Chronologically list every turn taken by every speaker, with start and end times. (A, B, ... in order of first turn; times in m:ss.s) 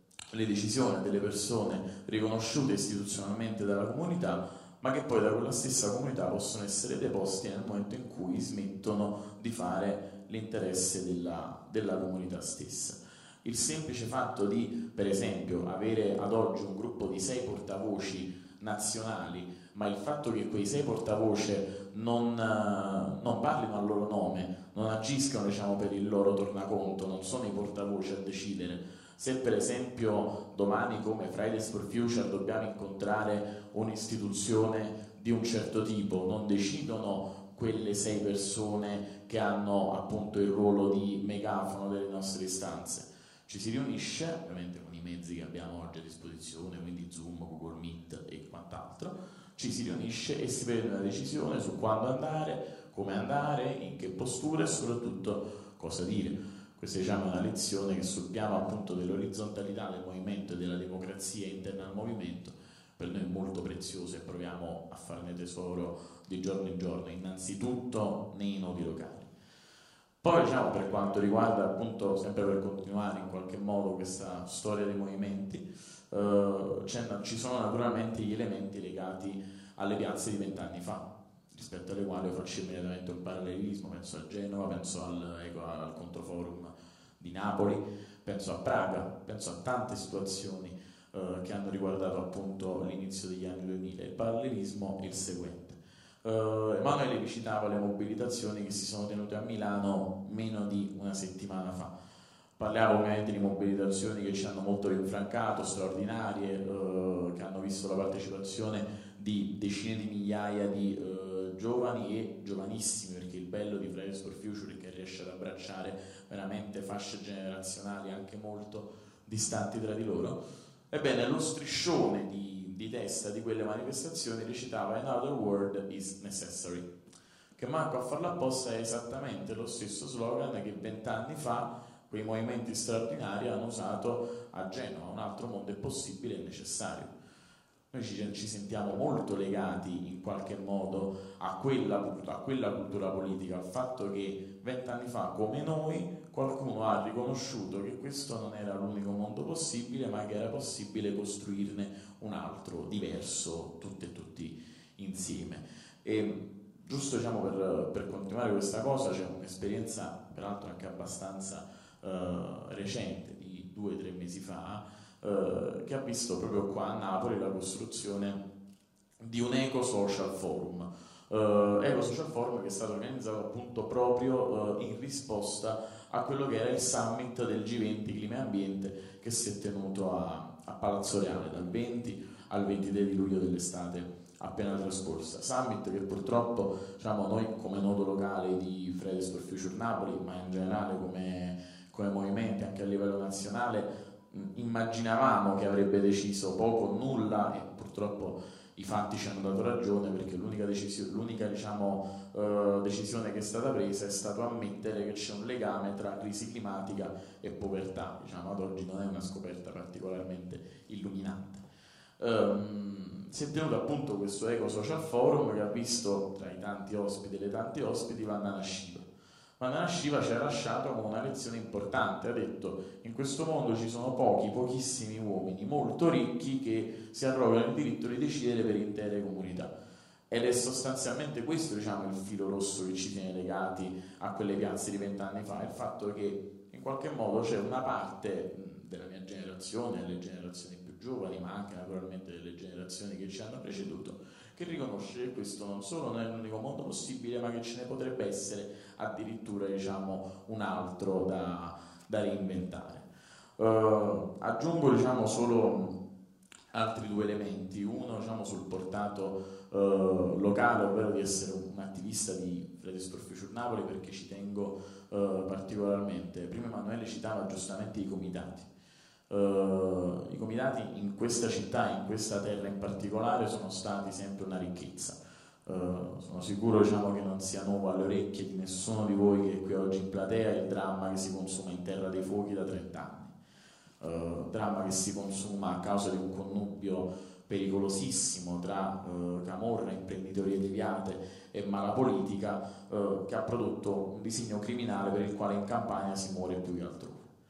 0:00.3-1:09.3 A
1:10.2-1:41.9 A
1:42.6-2:00.4 A
2:00.9-2:06.9 A
2:07.6-2:17.1 A
2:17.9-2:48.4 A
2:49.2-3:31.6 A
3:32.2-3:39.1 A
3:39.6-3:49.7 A
3:50.3-4:13.0 A
4:13.6-4:16.0 A
4:16.7-4:28.7 A
4:29.3-4:43.3 A
4:44.0-4:57.3 A